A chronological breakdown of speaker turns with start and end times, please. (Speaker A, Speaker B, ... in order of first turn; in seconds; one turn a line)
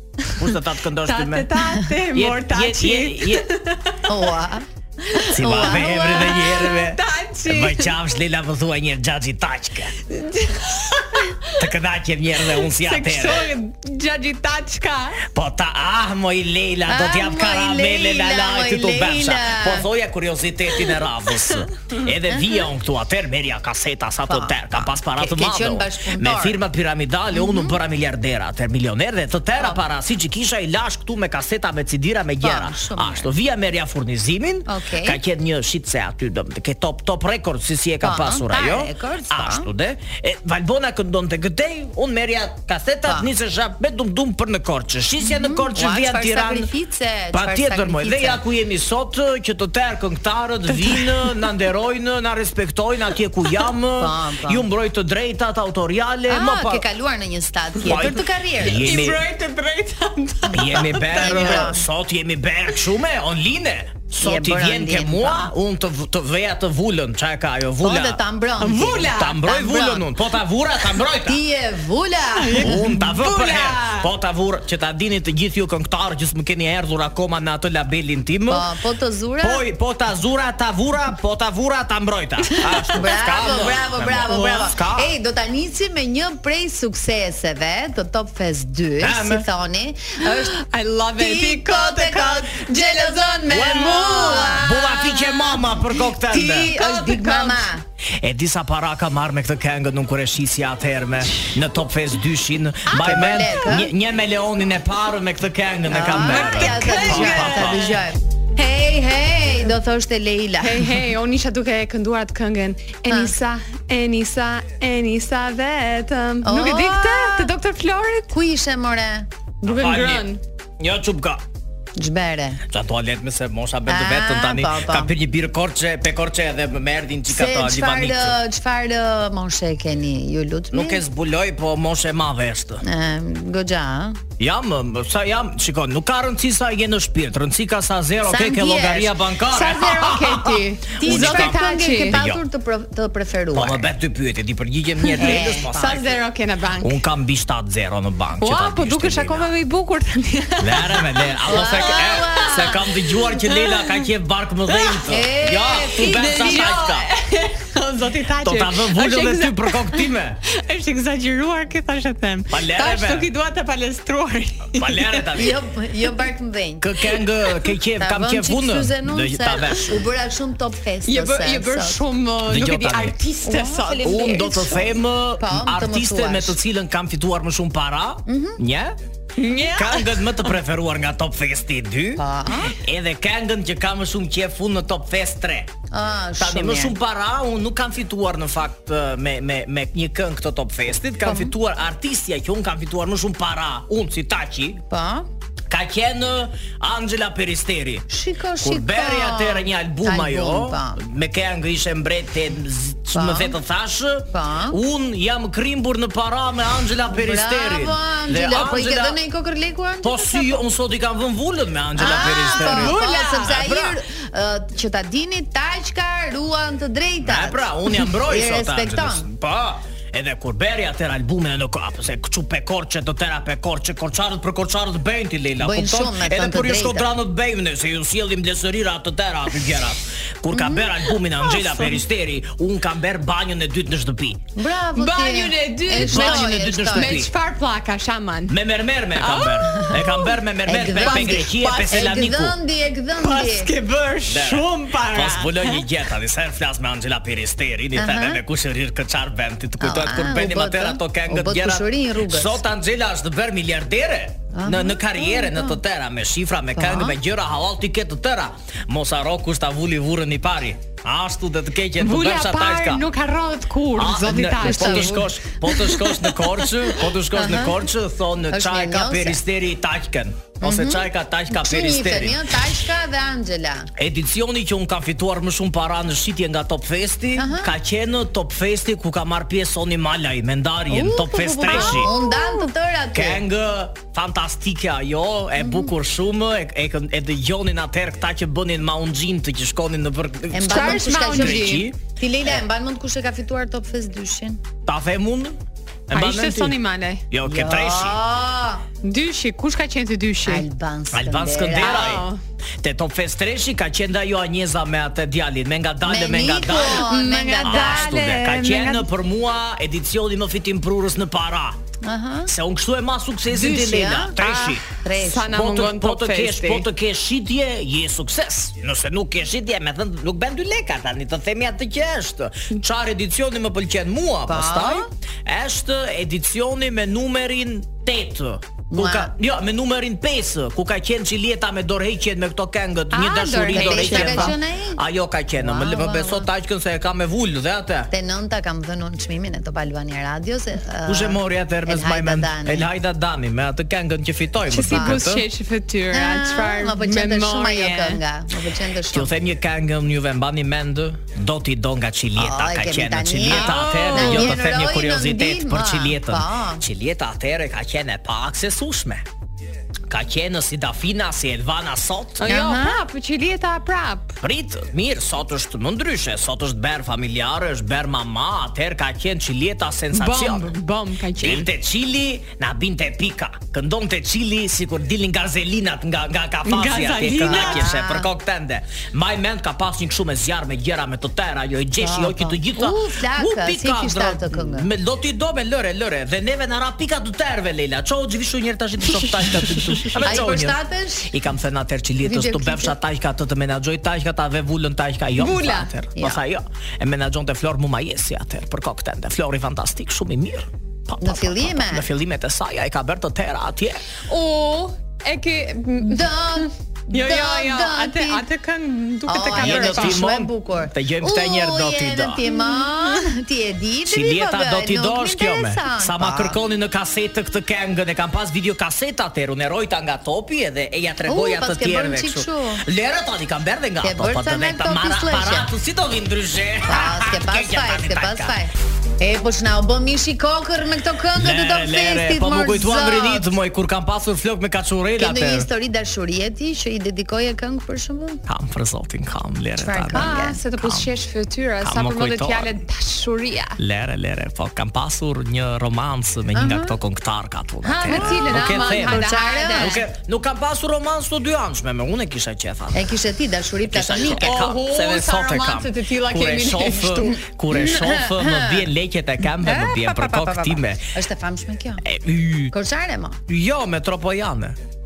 Speaker A: 0.4-1.5
Speaker B: 1.0-4.0
Speaker A: 2.1-3.5
Speaker C: 4.1-6.5
Speaker B: 5.2-7.9
Speaker A: 5.3-9.9
Speaker B: 10.1-11.6
Speaker A: 11.5-13.5
Speaker B: 12.5-15.2
Speaker A: 15.3-46.7
Speaker C: 16.9-19.9
Speaker C: 22.3-22.5
Speaker C: 24.3-26.6
Speaker C: 27.3-27.8
Speaker C: 32.4-33.3
Speaker C: 34.7-35.2
Speaker C: 38.0-39.7
Speaker C: 45.2-48.4
Speaker A: 47.3-56.8
Speaker C: 54.0-54.7
Speaker C: 56.3-58.9
Speaker A: 57.8-59.2
Speaker B: 58.8-61.6
Speaker C: 60.5-61.9
Speaker A: 60.5-68.2
Speaker C: 64.2-65.5
Speaker C: 67.8-70.1
Speaker B: 68.6-69.4
Speaker A: 69.1-71.4
Speaker C: 71.2-72.7
Speaker B: 72.4-74.1
Speaker A: 72.6-78.7
Speaker C: 78.5-79.6
Speaker A: 79.4-85.1
Speaker C: 82.9-90.6
Speaker A: 89.0-89.5
Speaker B: 90.3-94.7
Speaker C: 91.2-95.4
Speaker A: 93.5-96.7
Speaker C: 96.2-97.8
Speaker B: 96.7-97.7
Speaker A: 98.2-107.9
Speaker B: 102.9-103.2
Speaker C: 102.9-103.9
Speaker C: 105.9-110.9
Speaker B: 106.1-107.9
Speaker B: 110.6-118.3
Speaker C: 113.1-113.3
Speaker C: 116.4-117.5
Speaker C: 118.3-119.3
Speaker B: 119.6-120.4
Speaker A: 119.6-120.3
Speaker A: 120.8-121.4
Speaker C: 122.0-122.6
Speaker A: 122.7-128.3
Speaker C: 123.9-125.1
Speaker C: 127.3-131.0
Speaker A: 130.7-132.8
Speaker C: 132.8-134.2
Speaker A: 134.4-141.6
Speaker C: 138.3-139.1
Speaker B: 139.5-142.2
Speaker C: 141.0-143.8
Speaker A: 142.1-142.4
Speaker A: 143.5-146.1
Speaker B: 145.0-147.0
Speaker C: 145.2-146.0
Speaker A: 146.8-149.5
Speaker B: 148.4-152.8
Speaker A: 150.6-157.1
Speaker C: 151.5-152.8
Speaker B: 153.3-154.1
Speaker B: 154.7-155.0
Speaker C: 155.1-156.5
Speaker B: 156.0-165.3
Speaker A: 158.4-160.4
Speaker A: 162.5-163.3
Speaker A: 164.8-165.6
Speaker C: 165.3-166.9
Speaker A: 166.8-170.0
Speaker C: 168.0-172.0
Speaker B: 171.1-174.4
Speaker A: 172.5-173.2
Speaker C: 173.4-176.6
Speaker A: 174.0-178.9
Speaker C: 178.3-178.6
Speaker B: 179.4-180.5
Speaker A: 179.7-182.2
Speaker C: 182.2-182.7
Speaker A: 182.7-185.7
Speaker C: 185.9-186.9
Speaker A: 186.4-194.8
Speaker C: 191.2-191.5
Speaker C: 194.9-195.3
Speaker A: 195.7-198.1
Speaker C: 198.1-201.0
Speaker A: 198.6-209.2
Speaker C: 203.1-203.6
Speaker C: 204.3-204.8
Speaker C: 207.1-210.6
Speaker A: 210.0-214.0
Speaker C: 211.9-219.3
Speaker B: 212.1-213.5
Speaker A: 217.2-234.4
Speaker C: 225.6-227.1
Speaker C: 230.5-231.0
Speaker C: 234.6-237.2
Speaker B: 235.0-238.6
Speaker A: 236.0-237.3
Speaker A: 238.5-242.5
Speaker B: 239.2-240.0
Speaker C: 239.7-243.7
Speaker B: 240.9-242.1
Speaker B: 243.2-245.8
Speaker A: 244.3-263.0
Speaker C: 247.9-248.4
Speaker C: 249.8-252.6
Speaker C: 254.5-255.8
Speaker C: 256.8-257.1
Speaker B: 262.0-265.2
Speaker A: 263.9-272.4
Speaker C: 264.5-265.3
Speaker B: 265.7-266.2
Speaker C: 267.3-267.9
Speaker C: 268.5-269.4
Speaker C: 270.6-273.9
Speaker A: 274.0-282.1
Speaker C: 277.4-277.7
Speaker C: 280.9-283.4
Speaker B: 281.7-282.6
Speaker A: 283.1-292.0
Speaker C: 285.6-285.9
Speaker C: 290.5-294.6
Speaker B: 290.6-291.8
Speaker A: 294.9-295.6
Speaker A: 296.1-296.8
Speaker B: 296.1-297.2
Speaker A: 297.3-298.2
Speaker C: 297.4-298.8
Speaker B: 299.0-300.6
Speaker C: 300.4-302.2
Speaker A: 301.1-302.2
Speaker B: 301.8-302.4
Speaker A: 302.8-307.0
Speaker C: 306.0-308.8
Speaker B: 306.7-309.0
Speaker A: 307.6-311.8
Speaker C: 312.0-312.5
Speaker A: 312.4-314.8
Speaker C: 313.5-314.4
Speaker B: 314.4-316.8
Speaker C: 315.0-315.6
Speaker A: 315.4-338.1
Speaker C: 324.5-325.1
Speaker C: 328.9-329.3
Speaker B: 333.1-334.6
Speaker C: 333.2-335.0
Speaker C: 335.6-336.5
Speaker C: 338.1-342.9
Speaker A: 341.1-345.4
Speaker B: 344.7-348.2
Speaker C: 344.8-345.2
Speaker C: 346.1-349.3
Speaker A: 349.1-359.2
Speaker C: 352.4-356.8
Speaker B: 353.5-354.6
Speaker A: 360.1-362.4
Speaker B: 362.4-364.4
Speaker C: 362.4-363.0
Speaker A: 364.4-370.7
Speaker B: 370.1-371.7
Speaker A: 371.4-404.0
Speaker B: 376.6-377.8
Speaker C: 377.4-378.3
Speaker C: 382.0-384.9
Speaker C: 390.1-391.3
Speaker C: 392.2-392.9
Speaker B: 395.4-395.9
Speaker C: 401.2-402.1
Speaker B: 404.1-410.2
Speaker C: 406.0-408.4
Speaker C: 409.3-416.6
Speaker A: 409.6-412.4
Speaker B: 412.4-413.2
Speaker A: 414.1-428.6
Speaker C: 421.2-422.8
Speaker C: 424.0-425.7
Speaker C: 426.9-433.5
Speaker A: 431.3-435.7
Speaker C: 435.2-438.4
Speaker A: 438.5-441.1
Speaker C: 439.8-440.6
Speaker B: 440.1-443.8
Speaker A: 441.8-442.7
Speaker A: 443.8-453.2
Speaker C: 446.5-446.9
Speaker B: 447.8-450.0
Speaker C: 448.1-450.0
Speaker C: 452.9-454.6
Speaker A: 453.9-461.1
Speaker B: 454.4-457.4
Speaker C: 457.7-458.9
Speaker C: 459.6-462.0
Speaker A: 462.0-462.7
Speaker C: 462.7-463.4
Speaker A: 463.5-464.8